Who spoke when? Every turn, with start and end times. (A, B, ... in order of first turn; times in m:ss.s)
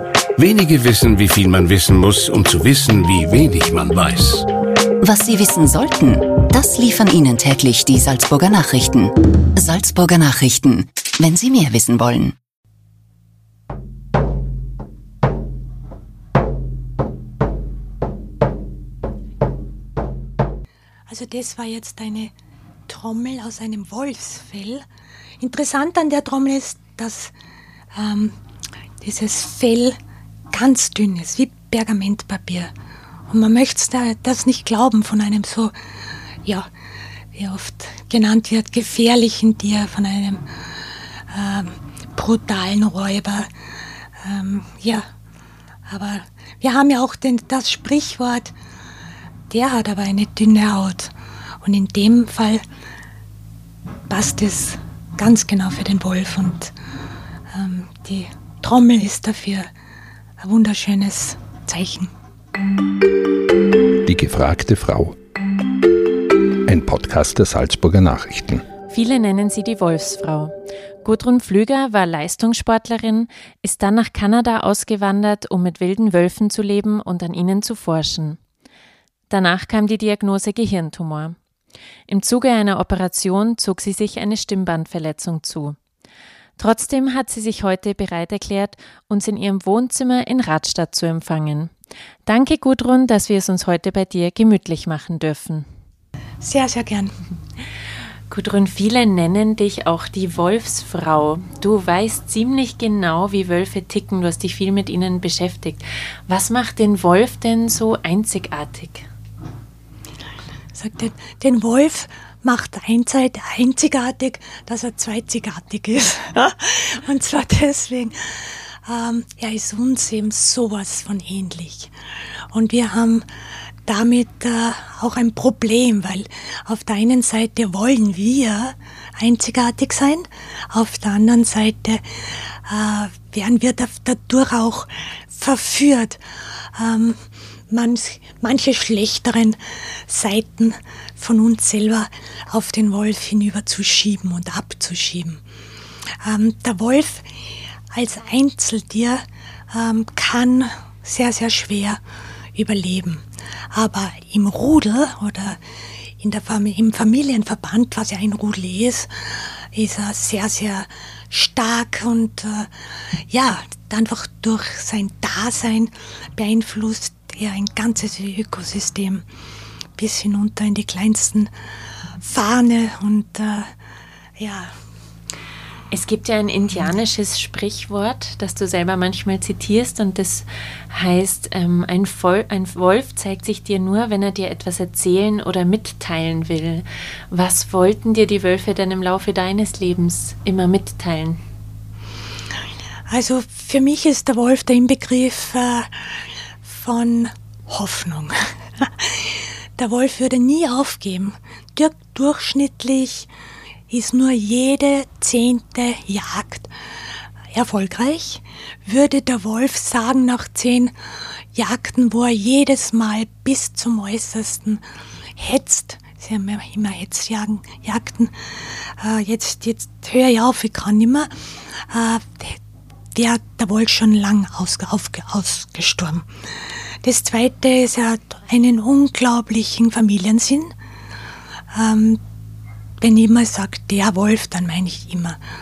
0:00.4-0:04.5 A
0:05.0-0:12.3 B
0:21.1-0:22.3 C
0:22.9-0:24.8 C
0:25.4-0:27.3 C
0:27.9-0:28.4 C
0:29.0-0:30.0 C
0:30.5-0:32.7 C
0:33.3-0:35.7 C
0:36.4-0:36.7 C
0:37.3-0:43.5 C
0:44.2-0:45.0 C
0:45.9-0:48.5 C
0:49.5-0:52.6 C
0:54.1-0:56.7 C
0:57.5-0:59.7 C
1:00.4-1:02.1 C
1:04.0-1:05.2 D
1:06.7-1:08.6 D
1:08.9-1:18.4 E
1:19.3-1:21.4 E
1:22.1-1:25.8 E
1:26.6-1:31.7 E
1:32.2-1:35.7 E
1:36.4-1:37.2 C
1:38.3-1:49.1 E
1:50.7-2:01.9 C
2:02.5-2:03.3 C
2:03.9-2:25.4 C
2:26.2-2:32.0 C
2:32.6-2:35.6 C
2:36.2-2:49.2 C
2:50.0-2:51.5 C
2:52.2-2:53.7 C
2:54.4-2:54.8 C
2:55.9-3:11.4 E
3:13.1-3:23.3 C
3:23.9-3:26.7 C
3:27.5-3:30.9 C
3:31.5-3:34.8 C
3:35.3-3:42.6 C
3:43.1-3:46.3 C
3:47.0-3:50.7 C
3:51.7-3:52.2 C
3:53.0-3:55.4 C